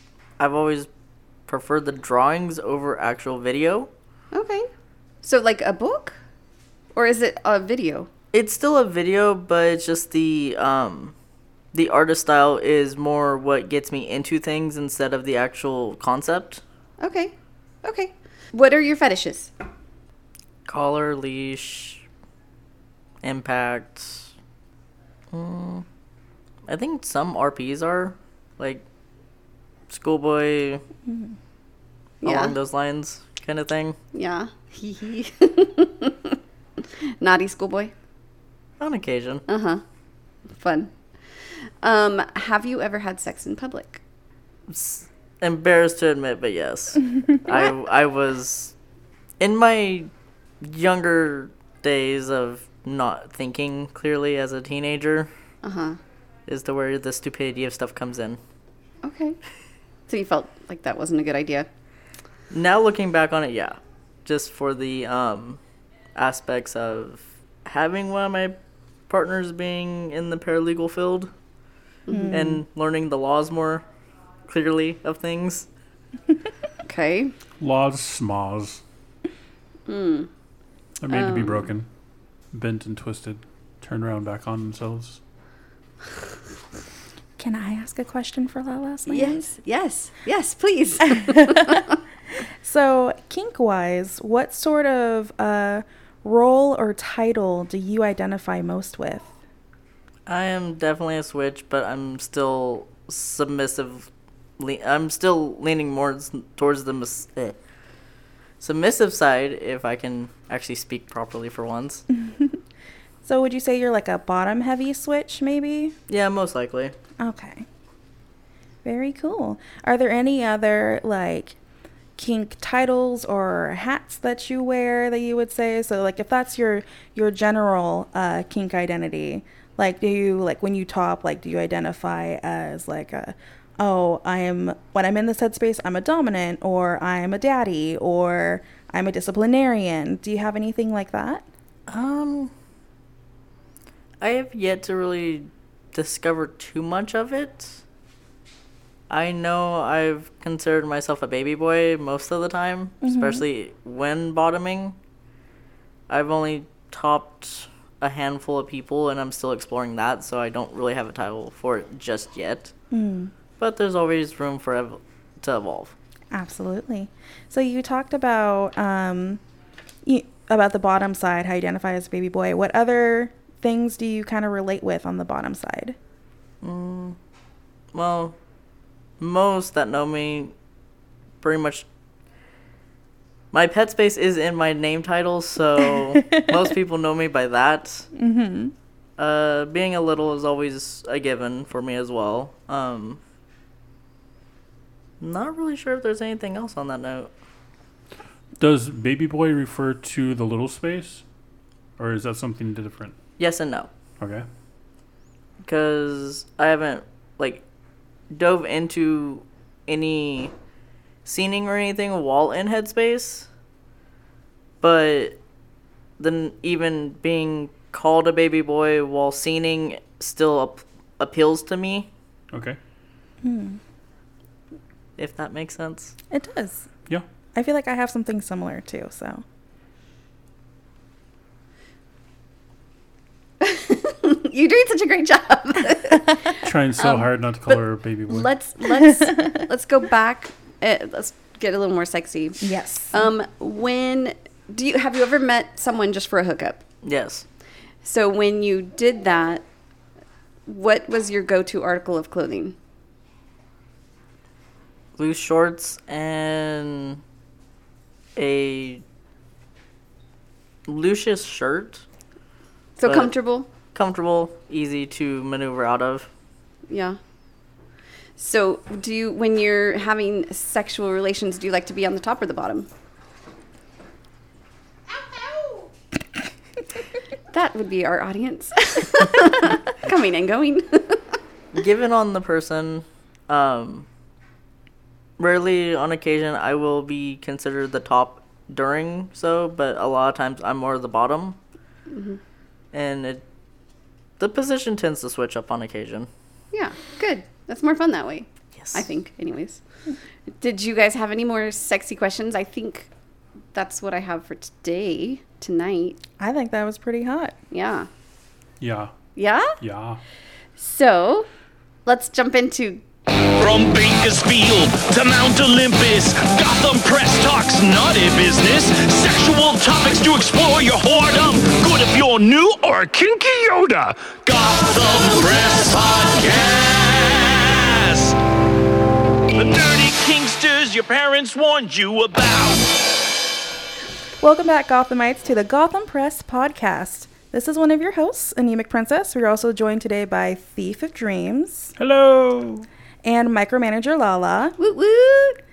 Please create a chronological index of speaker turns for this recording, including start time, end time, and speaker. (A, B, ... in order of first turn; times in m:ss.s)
0:00.4-0:00.9 A
0:01.5-0:03.9 A
0:04.3-0:04.7 B
0:05.2-0:06.2 B
0:06.9-0:08.1 B
0:08.3-0:11.1 A
0:11.7-0:16.6 A
0:17.0-0:19.5 B
0:20.6-0:22.0 A
0:23.2-0:24.3 A
0:25.3-0:25.8 A
0:26.7-0:28.8 A
0:29.9-0:30.8 A
0:32.2-0:32.6 B
0:32.2-0:34.0 A
0:34.1-0:37.9 B
0:38.8-0:39.4 A
0:39.5-0:39.8 B
0:40.5-0:44.0 B
0:44.7-0:48.7 A
0:49.4-0:50.1 A
0:50.6-0:55.3 A
0:55.6-0:56.0 B
0:56.5-0:58.4 A
0:59.0-0:59.4 B
1:00.1-1:01.7 B
1:02.5-1:05.6 A
1:06.2-1:08.6 A
1:09.1-1:11.3 A
1:12.1-1:12.4 B
1:12.1-1:12.6 C
1:12.3-1:13.8 A
1:14.4-1:15.7 A
1:16.8-1:17.3 B
1:17.6-1:18.8 D
1:19.9-1:20.3 B
1:21.0-1:21.9 D
1:21.1-1:21.7 B
1:22.5-1:25.2 D
1:27.4-1:29.5 C
1:29.1-1:32.0 B
1:31.1-1:31.8 C
1:32.6-1:39.3 C
1:40.3-1:44.1 A
1:44.6-1:47.6 A
1:48.6-1:52.0 A
1:52.1-1:52.6 C
1:53.2-1:55.9 C
1:56.1-1:56.9 A
1:57.2-1:57.6 C
1:58.8-2:01.6 C
2:02.2-2:21.4 C
2:21.9-2:22.5 A
2:24.2-2:27.8 A
2:29.1-2:35.0 A
2:33.0-2:33.4 C
2:36.1-2:42.7 A
2:42.9-2:43.3 C
2:43.6-2:45.9 A
2:46.3-2:49.4 C
2:50.0-2:56.0 C
2:56.6-2:57.2 A
2:57.9-2:58.4 A
2:59.2-3:00.5 A
3:01.4-3:01.9 A
3:03.5-3:08.1 A
3:06.0-3:06.6 C
3:08.1-3:08.7 C
3:09.2-3:13.2 A
3:15.2-3:17.3 A
3:18.6-3:21.2 D
3:22.0-3:23.2 D
3:23.4-3:23.9 A
3:24.2-3:24.5 D
3:25.6-3:27.6 A
3:28.3-3:30.5 A
3:31.2-3:33.5 A
3:34.8-3:35.4 A
3:36.2-3:42.1 A
3:42.5-3:42.8 D
3:43.4-3:43.8 C
3:45.2-3:46.1 A
3:46.3-3:46.9 C
3:47.6-3:49.4 C
3:53.6-4:06.8 B
3:56.6-3:58.5 D
3:59.0-3:59.5 C
4:02.6-4:03.3 C
4:07.0-4:07.4 A
4:08.0-4:09.6 B
4:10.7-4:12.8 B
4:15.2-4:17.2 A
4:18.4-4:19.0 A
4:20.9-4:22.0 A
4:23.0-4:23.7 B
4:23.0-4:23.3 A
4:23.9-4:26.3 A
4:26.9-4:27.2 B
4:28.4-4:32.9 B
4:37.5-4:41.4 B
4:41.7-4:44.1 A
4:45.4-4:51.6 A
4:52.1-4:52.4 B
4:52.9-4:53.4 A
4:54.4-4:56.3 A
4:56.7-4:59.8 B
5:00.5-5:03.1 B
5:03.7-5:06.2 B
5:06.4-5:07.6 C
5:07.7-5:08.1 B
5:08.8-5:09.1 D
5:09.4-5:09.8 B
5:09.8-5:10.2 D
5:10.8-5:11.5 B
5:12.1-5:13.0 B
5:13.6-5:28.4 E
5:29.5-5:33.0 E
5:34.4-5:41.9 C
5:42.0-5:42.9 D
5:43.2-5:44.8 C
5:44.8-5:45.6 B